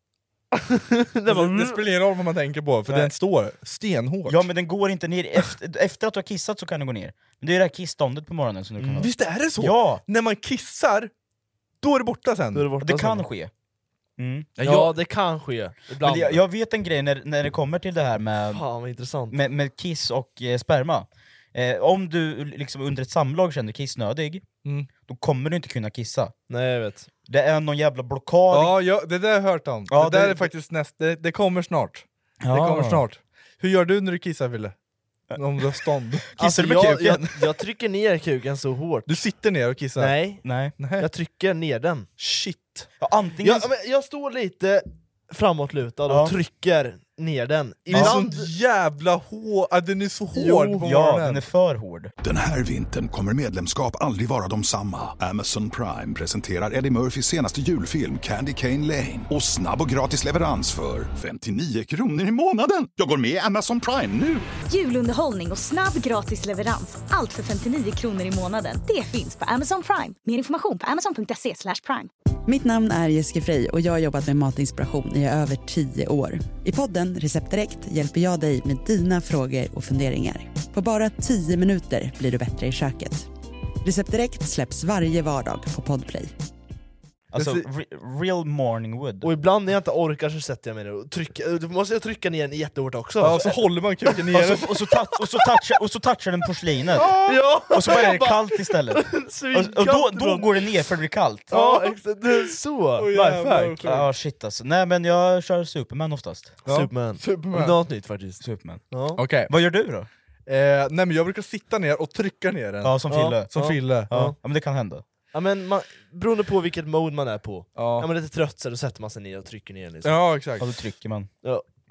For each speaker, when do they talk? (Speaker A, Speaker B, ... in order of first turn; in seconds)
Speaker A: 0.6-1.8, 12.5-13.3, 14.6-16.4, 18.5-19.4, 26.5-27.1, 36.4-39.1, 40.0-40.5, 41.0-42.1, 43.4-48.5, 50.4-50.9, 89.2-93.5, 97.0-100.6, 101.5-104.0, 106.7-109.2, 113.1-113.4, 114.1-114.4, 115.3-120.1
Speaker B: 1.3-4.5, 8.8-11.1, 11.8-12.7, 14.6-14.9, 24.6-24.9, 28.5-34.8, 35.4-36.3, 39.1-40.2, 40.8-41.1, 42.2-42.9, 47.9-51.4, 87.3-87.7, 93.2-94.7, 97.0-97.4, 101.5-102.0, 103.0-104.0, 106.7-107.8, 109.2-109.5, 110.5-114.1, 117.8-118.1, 120.0-120.7
Speaker C: 4.3-10.0, 12.8-13.5, 14.2-14.5, 16.0-18.6, 19.3-24.4, 25.1-26.3, 27.3-28.8, 29.9-30.5, 32.4-33.0, 35.3-37.4, 40.4-40.8, 43.0-43.7, 46.1-46.4, 47.9-48.2, 50.8-52.1, 87.3-89.3, 94.3-101.5, 103.8-106.6, 108.4-110.1, 112.8-115.0, 120.6-121.3
Speaker D: 52.2-64.5
Speaker E: 64.7-72.1
Speaker F: 72.5-83.3, 83.8-86.3